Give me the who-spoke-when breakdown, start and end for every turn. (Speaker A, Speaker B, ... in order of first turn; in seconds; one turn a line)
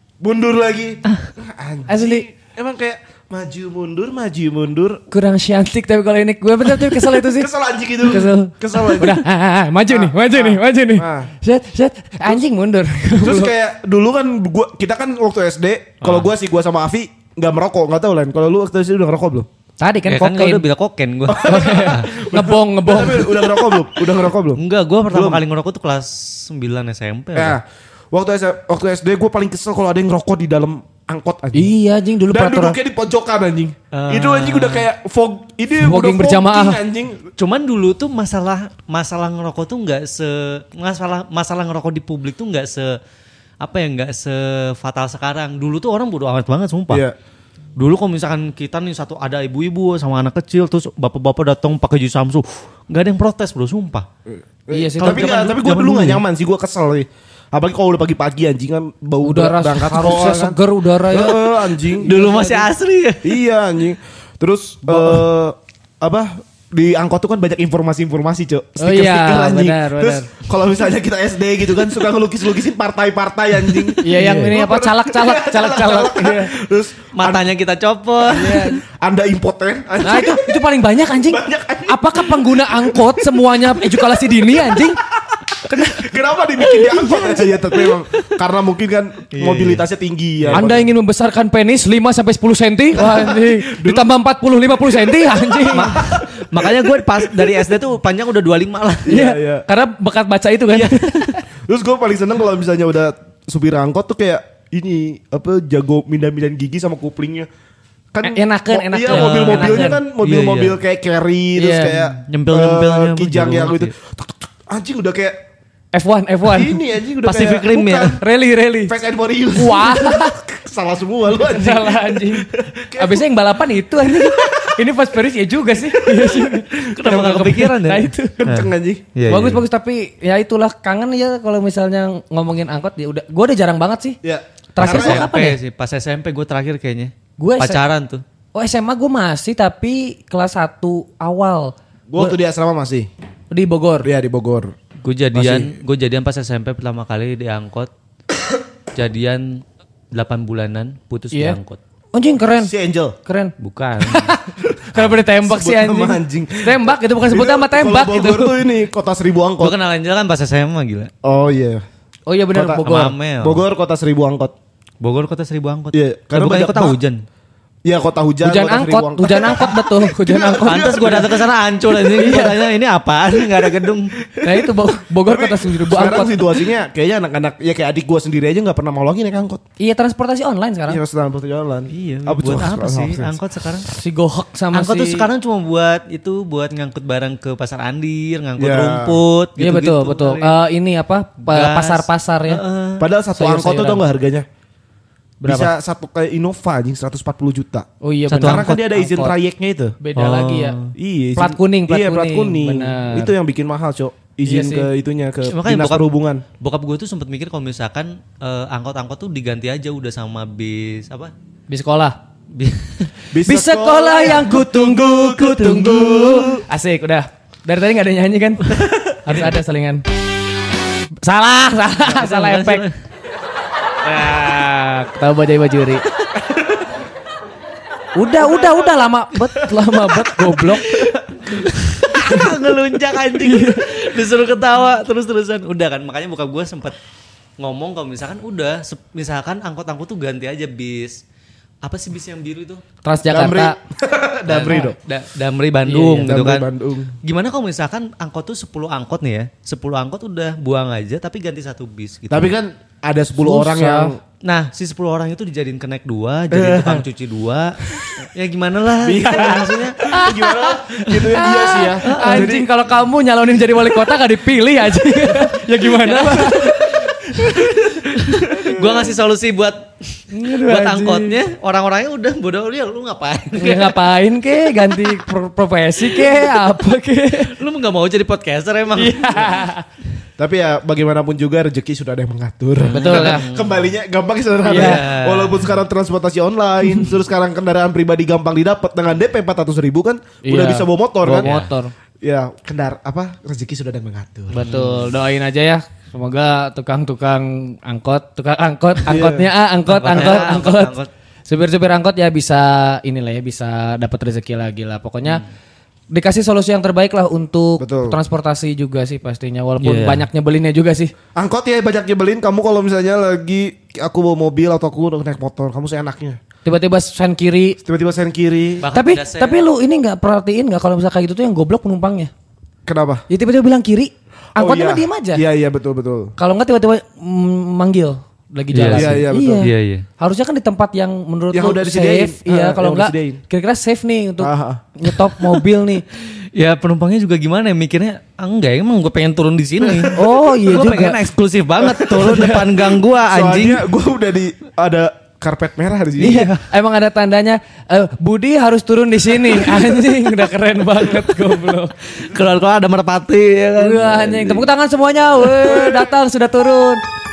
Speaker A: 0.2-5.0
Speaker B: 1.9-2.2
Speaker B: 5.1-13.5
Speaker A: 7.1-9.2
Speaker A: 9.9-11.3
Speaker A: 13.2-19.5
Speaker C: 16.0-16.3
Speaker B: 19.8-20.6
Speaker C: 20.1-22.1
Speaker A: 21.3-25.4
Speaker B: 21.4-23.9
Speaker C: 24.6-27.6
Speaker A: 27.3-31.7
Speaker B: 31.5-32.8
Speaker A: 32.3-37.3
Speaker C: 33.9-34.9
Speaker B: 35.8-36.8
Speaker C: 37.4-43.0
Speaker C: 43.6-47.0
Speaker A: 46.9-47.1
Speaker C: 47.8-54.1
Speaker A: 54.3-62.1
Speaker B: 54.7-55.7
Speaker C: 55.0-56.2
Speaker B: 59.2-62.7
Speaker C: 62.0-63.4
Speaker A: 63.2-77.5
Speaker B: 64.8-65.2
Speaker B: 68.8-70.3
Speaker B: 74.0-76.5
Speaker C: 77.1-78.7
Speaker B: 78.3-78.8
Speaker A: 78.3-90.9
Speaker B: 80.0-85.0
Speaker B: 85.6-87.5
Speaker C: 89.3-89.8
Speaker C: 90.4-90.8
Speaker B: 90.5-95.9
Speaker A: 93.0-94.1
Speaker A: 94.8-97.7
Speaker C: 95.7-99.2
Speaker A: 99.1-99.6
Speaker B: 99.1-101.4
Speaker C: 100.7-101.3
Speaker A: 101.7-107.5
Speaker A: 108.1-115.5
Speaker B: 108.2-110.0
Speaker C: 109.1-110.8
Speaker B: 111.6-112.0
Speaker C: 111.8-113.9
Speaker B: 115.9-116.8
Speaker A: 116.5-118.2
Speaker C: 117.2-118.2
Speaker B: 118.2-118.9
Speaker A: 118.8-123.3
Speaker B: 119.5-120.4
Speaker B: 121.3-128.4
Speaker A: 124.0-124.8
Speaker A: 125.9-127.6
Speaker C: 126.8-129.6
Speaker A: 128.4-129.1
Speaker B: 129.3-134.2
Speaker A: 134.2-135.3
Speaker B: 134.7-135.6
Speaker C: 134.8-138.2
Speaker B: 137.4-137.8
Speaker B: 138.5-142.3
Speaker A: 142.1-143.1
Speaker B: 143.5-144.1
Speaker A: 144.0-144.7
Speaker C: 145.0-147.9
Speaker B: 145.4-145.7
Speaker C: 148.9-151.8
Speaker B: 151.3-151.6
Speaker B: 152.1-152.7
Speaker A: 152.6-153.2
Speaker B: 153.2-158.6
Speaker C: 153.6-154.3
Speaker A: 155.4-159.8
Speaker C: 159.6-161.1
Speaker A: 161.2-161.8
Speaker B: 162.3-163.1
Speaker A: 162.5-162.8
Speaker C: 162.8-163.6
Speaker A: 163.4-164.5
Speaker C: 165.0-167.2
Speaker A: 165.9-167.0
Speaker A: 167.8-171.4
Speaker B: 168.4-171.3
Speaker C: 170.6-174.2
Speaker B: 172.1-172.6
Speaker A: 174.2-174.7
Speaker B: 174.4-176.6
Speaker A: 175.2-179.6
Speaker B: 179.8-181.0
Speaker A: 180.9-183.4
Speaker C: 181.9-183.9
Speaker B: 183.8-185.3
Speaker C: 184.7-190.6
Speaker A: 188.6-189.2
Speaker B: 189.6-192.6
Speaker C: 191.4-193.1
Speaker A: 193.0-194.4
Speaker B: 193.3-194.0
Speaker B: 195.4-195.7
Speaker A: 195.4-199.9
Speaker B: 198.0-199.3
Speaker C: 198.3-198.8
Speaker B: 200.0-200.8
Speaker C: 200.2-200.9
Speaker A: 200.9-206.4
Speaker B: 201.4-203.3
Speaker B: 204.4-204.9
Speaker C: 205.5-206.0
Speaker C: 206.6-211.3
Speaker B: 211.7-212.2
Speaker C: 212.5-213.1
Speaker A: 213.3-216.6
Speaker B: 213.4-220.0
Speaker C: 219.2-219.6
Speaker B: 221.2-222.9
Speaker C: 222.1-222.9
Speaker B: 224.0-226.0
Speaker B: 228.1-231.2
Speaker C: 231.0-236.9
Speaker B: 232.1-232.6
Speaker B: 233.3-233.9
Speaker C: 237.6-241.2
Speaker C: 241.8-242.8
Speaker B: 243.0-243.7
Speaker A: 243.3-245.0
Speaker C: 244.5-246.7
Speaker B: 245.9-246.2
Speaker A: 246.1-247.2
Speaker C: 247.2-252.5
Speaker A: 252.3-254.2
Speaker B: 253.4-254.1
Speaker C: 254.4-260.0
Speaker A: 256.5-257.1
Speaker A: 259.0-262.7
Speaker B: 259.3-267.8
Speaker C: 261.1-261.4
Speaker C: 262.0-262.5
Speaker C: 265.8-274.0
Speaker A: 268.2-268.9
Speaker B: 270.3-271.4
Speaker B: 273.5-277.6
Speaker C: 274.9-275.2
Speaker C: 276.1-276.5
Speaker C: 277.6-279.7
Speaker B: 278.9-279.8
Speaker A: 280.4-291.5
Speaker C: 282.9-283.9
Speaker B: 282.9-283.5
Speaker B: 284.6-285.0
Speaker C: 284.6-285.7
Speaker B: 290.4-291.9
Speaker C: 291.3-291.7
Speaker A: 292.2-294.6
Speaker B: 294.5-300.9
Speaker C: 294.6-295.1
Speaker A: 299.1-299.5
Speaker C: 299.9-301.1
Speaker B: 301.5-305.4
Speaker B: 306.1-311.1
Speaker A: 307.8-308.2
Speaker C: 309.8-310.2
Speaker A: 311.4-316.4
Speaker B: 316.6-317.8
Speaker A: 317.8-318.9
Speaker C: 318.8-319.6
Speaker B: 318.9-322.3
Speaker A: 322.9-323.2
Speaker B: 323.3-325.4
Speaker A: 324.6-326.3
Speaker B: 326.4-336.0
Speaker C: 328.7-330.1
Speaker A: 328.9-329.7
Speaker A: 331.5-333.4
Speaker A: 334.4-334.8
Speaker C: 336.4-343.8
Speaker A: 339.8-340.1
Speaker B: 340.1-341.2
Speaker A: 341.8-346.5
Speaker B: 346.2-351.9
Speaker C: 346.2-346.6
Speaker C: 349.6-350.0
Speaker C: 352.1-354.6
Speaker B: 353.8-357.0
Speaker A: 355.6-356.1